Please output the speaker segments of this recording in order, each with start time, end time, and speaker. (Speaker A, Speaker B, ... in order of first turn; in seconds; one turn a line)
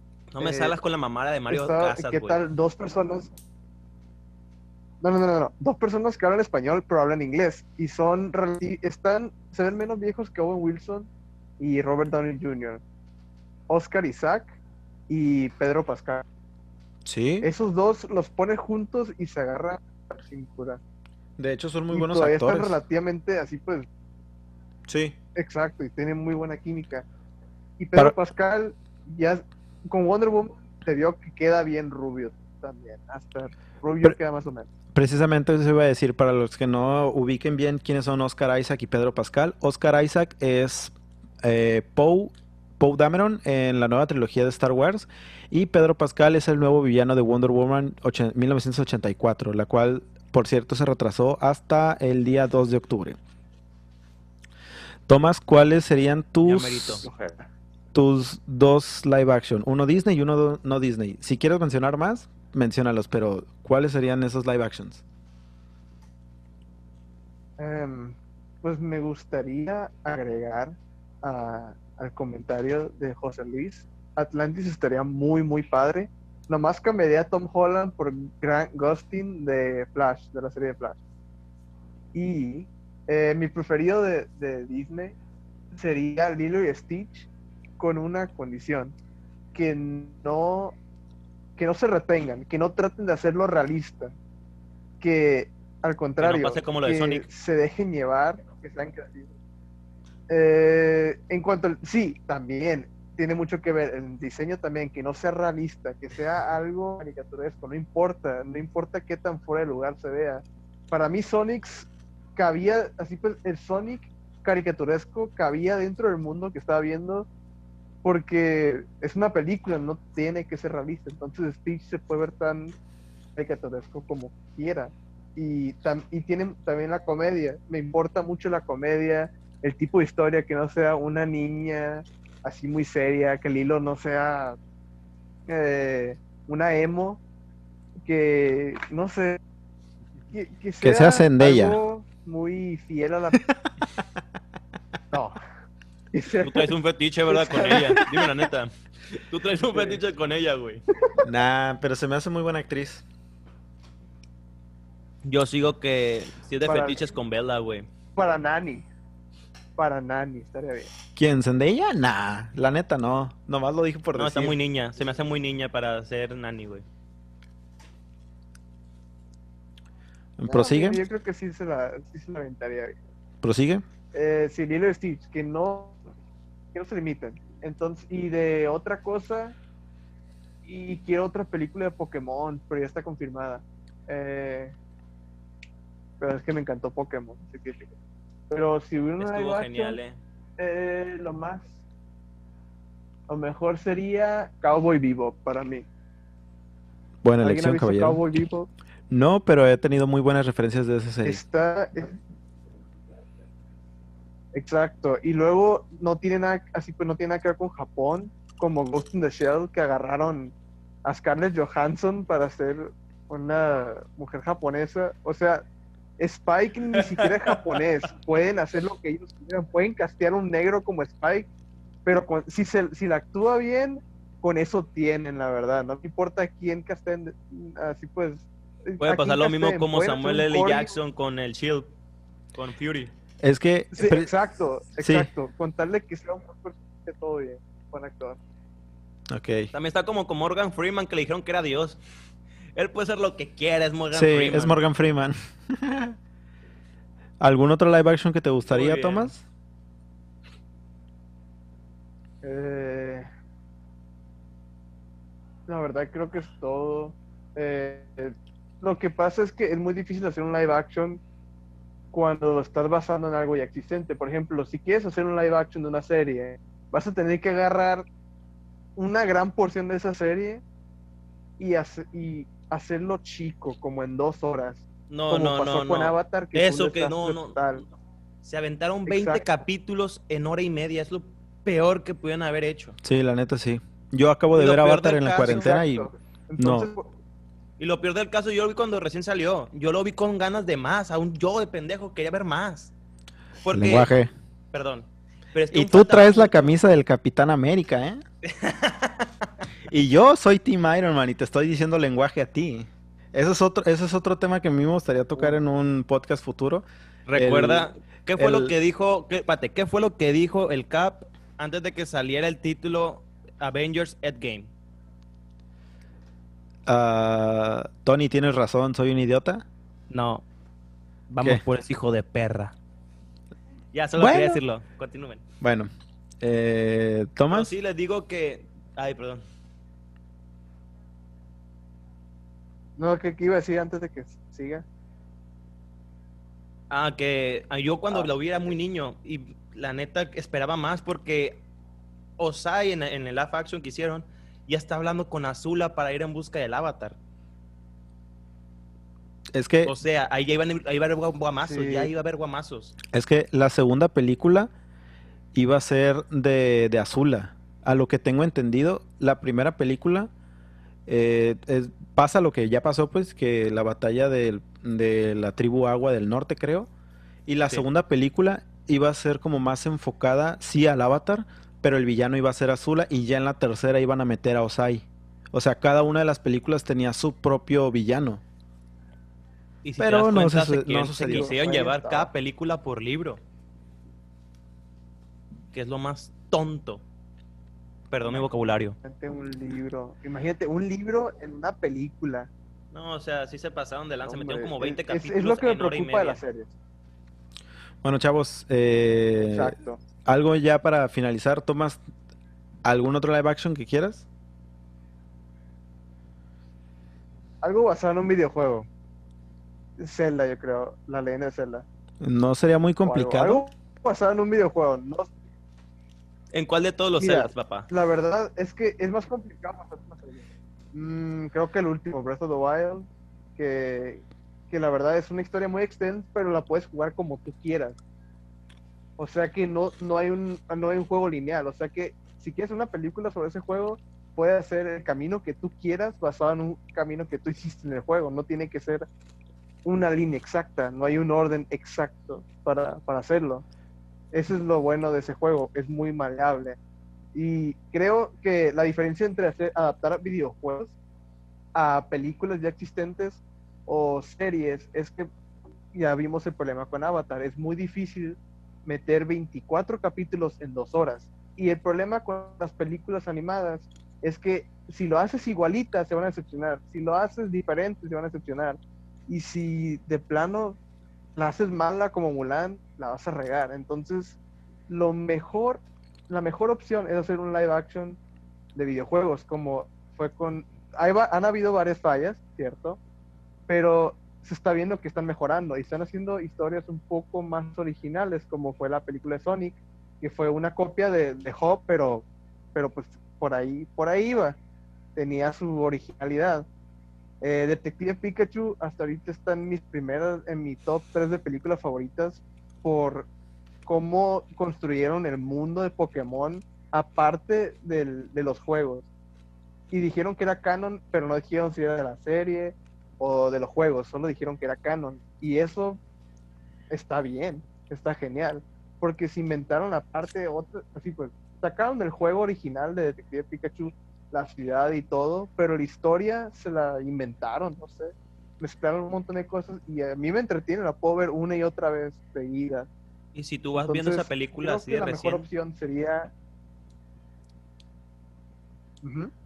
Speaker A: 0.3-2.4
Speaker B: 0.4-0.8
Speaker B: 1.5-3.3
Speaker B: 5.0-11.1
Speaker B: 11.6-12.8
Speaker B: 13.7-14.6
Speaker B: 15.1-16.2
Speaker C: 17.0-17.5
Speaker B: 17.4-20.8
Speaker C: 21.4-22.8
Speaker B: 21.9-23.9
Speaker C: 24.9-25.1
Speaker B: 25.4-27.1
Speaker B: 27.8-34.7
Speaker C: 34.9-53.2
Speaker C: 55.1-57.0
Speaker A: 56.4-57.1
Speaker B: 57.0-57.5
Speaker C: 57.9-65.0
Speaker B: 67.6-81.0
Speaker B: 82.1-85.2
Speaker B: 85.7-89.0
Speaker B: 89.5-90.8
Speaker B: 91.6-94.1
Speaker B: 95.0-99.3
Speaker A: 96.2-97.2
Speaker B: 100.3-117.3
Speaker B: 118.0-122.8
Speaker B: 123.3-134.6
Speaker B: 135.5-137.2
Speaker B: 138.0-139.4
Speaker B: 140.3-143.4
Speaker C: 140.8-141.8
Speaker B: 145.1-145.4
Speaker B: 146.1-146.7
Speaker A: 146.4-150.8
Speaker B: 147.3-148.1
Speaker B: 149.7-150.0
Speaker C: 151.2-153.0
Speaker A: 155.2-157.9
Speaker B: 156.6-157.0
Speaker B: 158.2-158.9
Speaker B: 159.8-160.9
Speaker C: 161.2-164.6
Speaker A: 164.1-166.8
Speaker C: 170.4-171.0
Speaker B: 170.5-173.0
Speaker C: 173.4-173.8
Speaker B: 174.1-176.0
Speaker B: 176.7-179.6
Speaker B: 180.6-184.7
Speaker B: 186.2-187.9
Speaker B: 188.5-190.0
Speaker A: 189.2-190.2
Speaker B: 190.6-191.8
Speaker B: 193.3-195.9
Speaker C: 197.2-198.3
Speaker B: 197.4-198.7
Speaker C: 199.1-201.4
Speaker B: 201.2-202.2
Speaker B: 204.5-215.6
Speaker B: 216.2-221.5
Speaker A: 217.0-217.6
Speaker B: 222.0-231.0
Speaker A: 229.0-231.9
Speaker A: 232.5-233.1
Speaker C: 233.4-234.3
Speaker B: 233.9-238.4
Speaker C: 235.0-235.3
Speaker C: 239.3-239.7
Speaker A: 239.7-242.0
Speaker A: 242.7-244.8
Speaker C: 244.1-246.1
Speaker C: 247.4-249.4
Speaker A: 248.7-249.3
Speaker B: 252.4-253.3
Speaker B: 255.7-261.2
Speaker B: 262.1-268.1
Speaker B: 268.9-270.6
Speaker B: 271.6-277.8
Speaker A: 275.1-277.8
Speaker A: 278.4-283.0
Speaker B: 279.1-279.4
Speaker C: 283.0-286.9
Speaker A: 284.5-285.7
Speaker B: 285.4-287.1
Speaker A: 287.8-292.9
Speaker A: 293.6-294.1
Speaker C: 293.7-294.3
Speaker A: 294.7-296.7
Speaker C: 295.7-298.2
Speaker A: 298.4-299.3
Speaker C: 299.9-308.7
Speaker A: 307.3-314.7
Speaker C: 316.9-319.6
Speaker A: 320.1-320.4
Speaker A: 321.3-322.7
Speaker A: 323.9-325.4
Speaker C: 324.2-324.6
Speaker C: 325.6-325.9
Speaker C: 326.4-327.7
Speaker A: 327.5-329.4
Speaker B: 333.0-334.8
Speaker A: 336.9-341.6
Speaker A: 342.4-347.2
Speaker C: 349.5-349.9
Speaker A: 349.8-352.9
Speaker B: 351.6-352.1
Speaker C: 353.1-354.7
Speaker C: 355.5-360.3
Speaker C: 361.1-366.9
Speaker C: 367.5-378.4
Speaker A: 379.8-383.4
Speaker C: 380.0-381.5
Speaker B: 381.2-382.3
Speaker A: 385.7-387.0
Speaker A: 388.1-389.0
Speaker B: 389.0-392.5
Speaker A: 392.9-396.4
Speaker B: 394.2-396.7
Speaker C: 398.0-402.0
Speaker B: 399.5-400.0
Speaker C: 402.8-404.2
Speaker B: 407.6-408.9
Speaker B: 410.0-411.9
Speaker C: 412.2-413.6
Speaker B: 413.0-415.3
Speaker A: 416.5-417.9
Speaker B: 417.2-428.0
Speaker B: 429.2-439.1
Speaker B: 439.8-443.6
Speaker B: 444.3-446.8
Speaker B: 447.3-450.9
Speaker B: 451.7-455.3
Speaker B: 455.9-470.8
Speaker B: 471.4-474.4
Speaker B: 474.9-478.2
Speaker B: 478.7-483.0
Speaker B: 483.7-494.6
Speaker B: 495.1-496.7
Speaker B: 497.4-503.3
Speaker B: 503.9-509.1
Speaker B: 509.9-516.0
Speaker B: 516.9-532.9
Speaker A: 533.3-535.5
Speaker B: 533.7-536.3
Speaker B: 539.0-539.3